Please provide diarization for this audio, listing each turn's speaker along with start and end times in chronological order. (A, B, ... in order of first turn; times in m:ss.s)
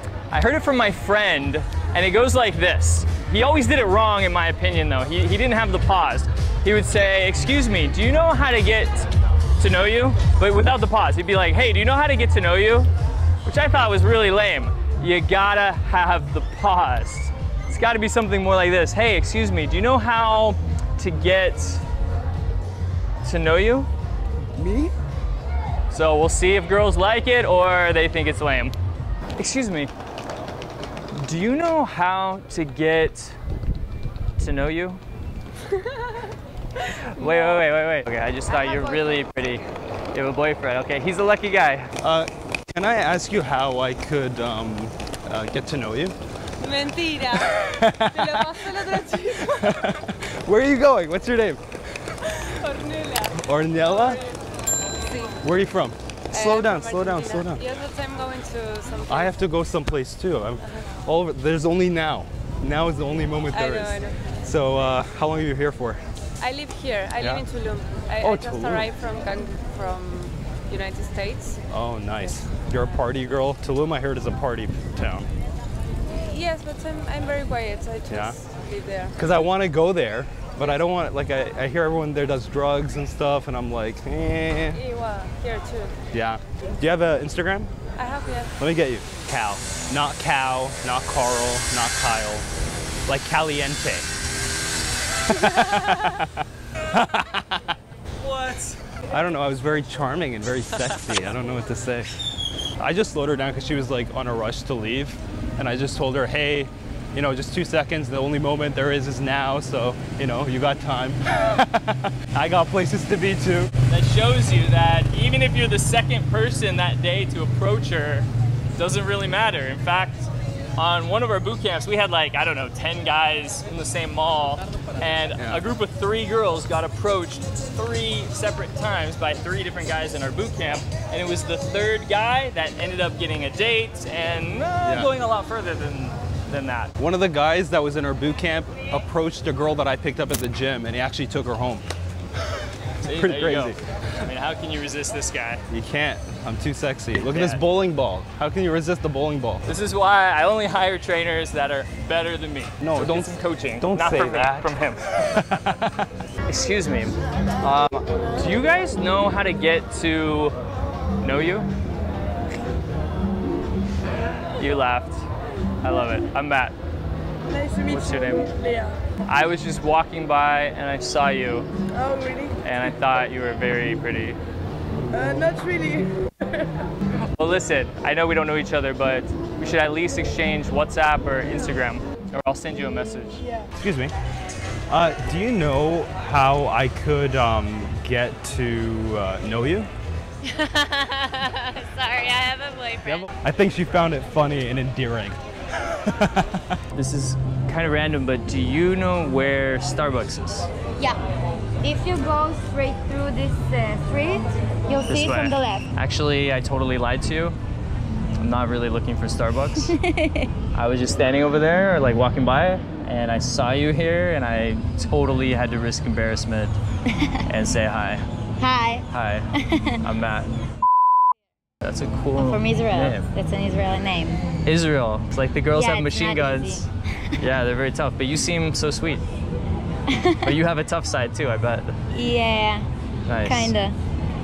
0:00.3-0:12.9 A
0:13.4-0:21.8 A
0:23.2-0:23.9 A
0:24.5-0:24.9 B
0:25.9-0:28.7 A
0:29.4-0:29.9 A
0:31.1-0:33.4 A
0:34.4-0:35.0 A
0:36.8-0:41.9 A
0:37.0-0:37.6 C
0:38.5-0:39.1 C
0:42.0-0:46.2 B
0:46.6-0:50.0 C
0:47.3-0:51.6 B
0:52.1-0:52.4 B
0:52.4-0:53.4 C
0:53.3-0:54.2 B
0:53.9-0:54.2 C
0:55.1-0:55.3 C
0:55.4-0:57.6 B
0:56.3-0:59.4 C
0:59.1-1:06.0 B
1:03.5-1:04.2 C
1:06.4-1:11.6 C
1:07.2-1:07.4 B
1:08.2-1:08.9 B
1:11.7-1:15.3 B
1:16.3-1:19.1 C
1:18.1-1:18.4 B
1:19.2-1:24.8 B
1:24.7-1:26.0 C
1:26.1-1:27.7 B
1:28.0-1:28.5 C
1:28.6-1:32.5 B
1:33.1-1:34.1 B
1:35.2-1:37.7 B
1:38.2-1:38.8 A
1:39.1-1:42.1 B
1:42.8-1:53.7 B
1:53.9-2:16.9 A
2:05.4-2:05.6 B
2:14.8-2:15.1 B
2:17.0-2:21.8 B
2:23.0-2:25.6 A
2:23.1-2:23.8 B
2:25.7-2:29.6 B
2:27.2-2:27.6 A
2:29.6-2:35.1 A
2:32.8-2:36.1 B
2:36.4-2:40.6 A
2:41.2-2:41.7 A
2:44.6-2:45.2 A
2:45.8-2:46.8 A
2:47.5-2:49.0 C
2:47.8-2:48.5 A
2:49.2-2:51.7 A
2:52.0-2:52.4 C
2:52.6-2:54.4 A
2:55.1-2:56.1 C
2:57.1-3:03.4 A
3:03.8-3:04.1 B
3:04.9-3:09.9 B
3:10.4-3:13.3 C
3:13.0-3:16.8 B
3:16.9-3:20.7 A
3:21.8-3:25.9 D
3:25.0-3:27.6 A
3:28.4-3:30.0 A
3:29.8-3:30.5 D
3:30.7-3:36.8 A
3:37.4-3:38.3 A
3:38.6-3:39.0 D
3:39.1-3:40.5 A
3:39.6-3:40.0 D
3:41.8-3:43.3 A
3:42.4-3:44.4 D
3:44.6-3:46.9 A
3:45.7-3:47.4 D
3:47.4-3:49.2 A
3:50.1-3:50.5 D
3:50.4-3:52.0 A
3:52.1-3:52.9 D
3:53.2-3:53.8 A
3:53.4-3:54.0 D